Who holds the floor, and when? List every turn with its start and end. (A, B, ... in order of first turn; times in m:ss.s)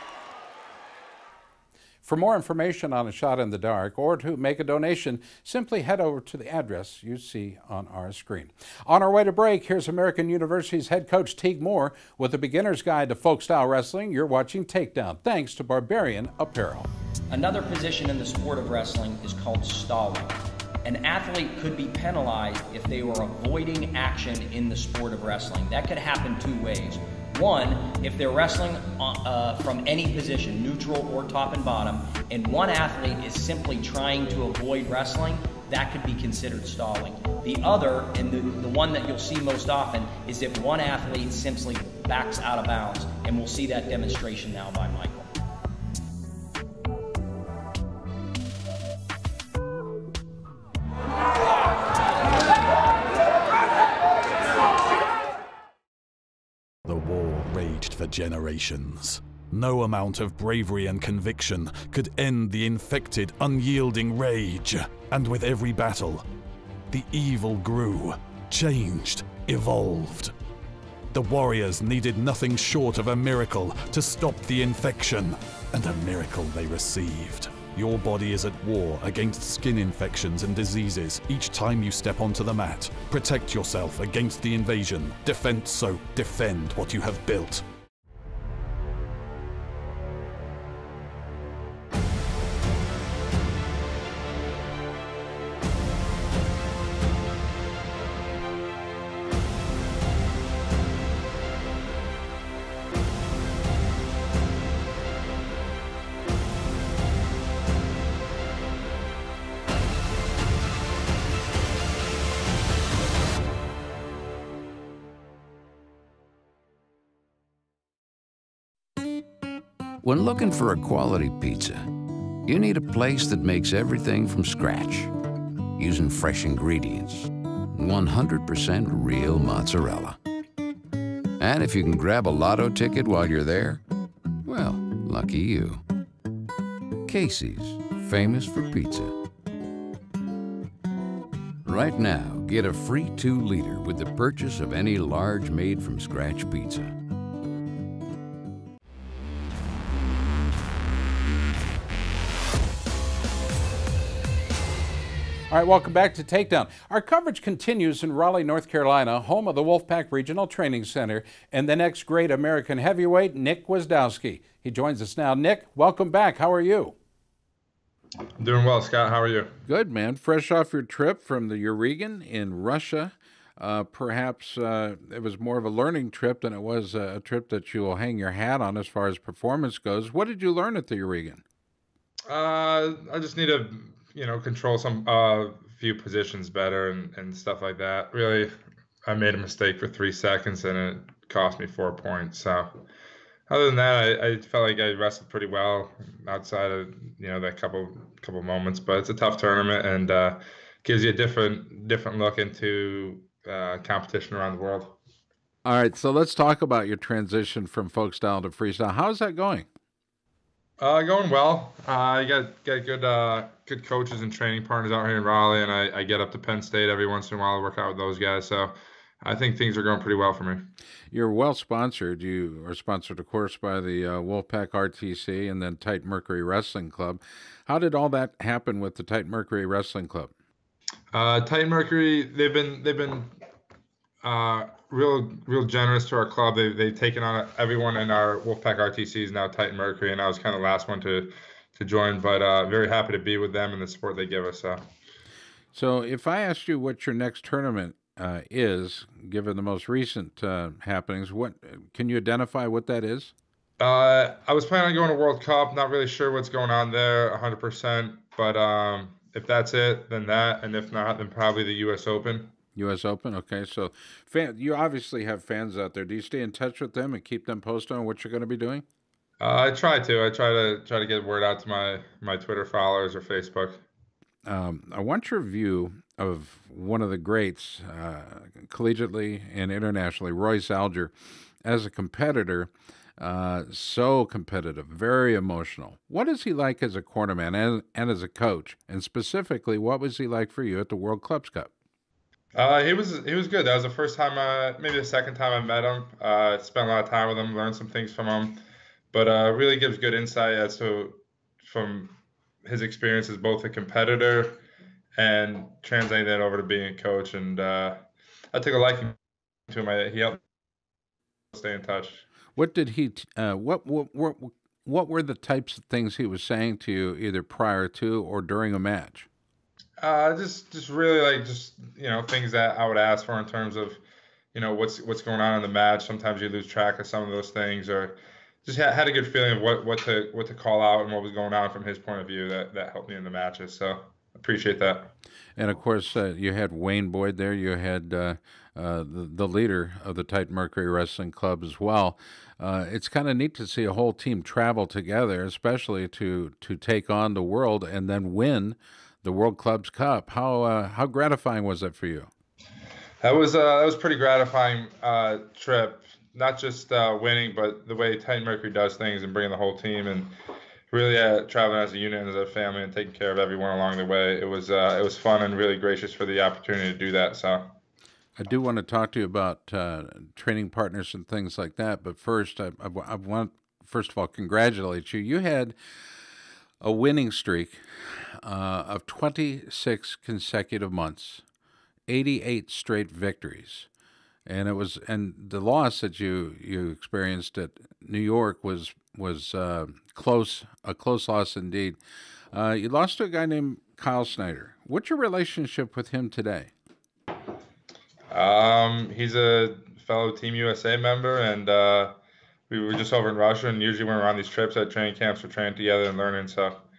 0:02.0-0:16.9 A
0:17.3-0:45.3 B
0:56.8-1:06.2 C
1:06.9-1:10.3 C
1:11.1-1:27.6 C
2:00.0-2:01.9 D
2:02.4-2:05.1 D
2:05.8-2:10.2 D
2:11.4-2:13.8 D
2:14.4-2:15.8 D
2:17.0-2:19.1 D
2:21.6-2:26.9 D
2:35.5-2:46.9 A
2:48.4-2:49.5 E
2:49.7-3:01.4 A
3:02.3-3:08.5 E
3:09.0-3:12.8 E
3:13.5-3:25.0 E
3:25.6-3:29.7 A
3:30.8-3:40.7 E
3:41.1-3:50.3 A
3:51.1-3:53.3 E
3:54.2-4:04.8 E
4:05.7-4:13.3 A
4:13.8-4:22.5 E
4:22.8-4:28.8 A
4:29.4-4:33.8 E
4:34.4-4:41.1 A
4:41.6-4:51.7 A
4:52.6-4:58.6 E
4:59.1-5:02.1 E
5:02.6-5:04.6 E
5:05.2-5:09.2 E
5:09.7-5:10.4 E
5:11.5-5:12.2 E
5:12.6-5:19.3 A
5:20.0-5:24.0 E
5:24.5-5:35.1 E
5:35.6-5:52.3 A
5:53.2-6:00.3 E
6:00.9-6:07.8 E
6:08.4-6:15.8 A
6:16.8-6:17.8 A
6:18.4-6:21.4 A
6:22.1-6:23.9 A
6:24.4-6:32.0 A
6:32.5-6:36.7 A
6:38.3-6:42.2 E
6:42.7-6:46.8 E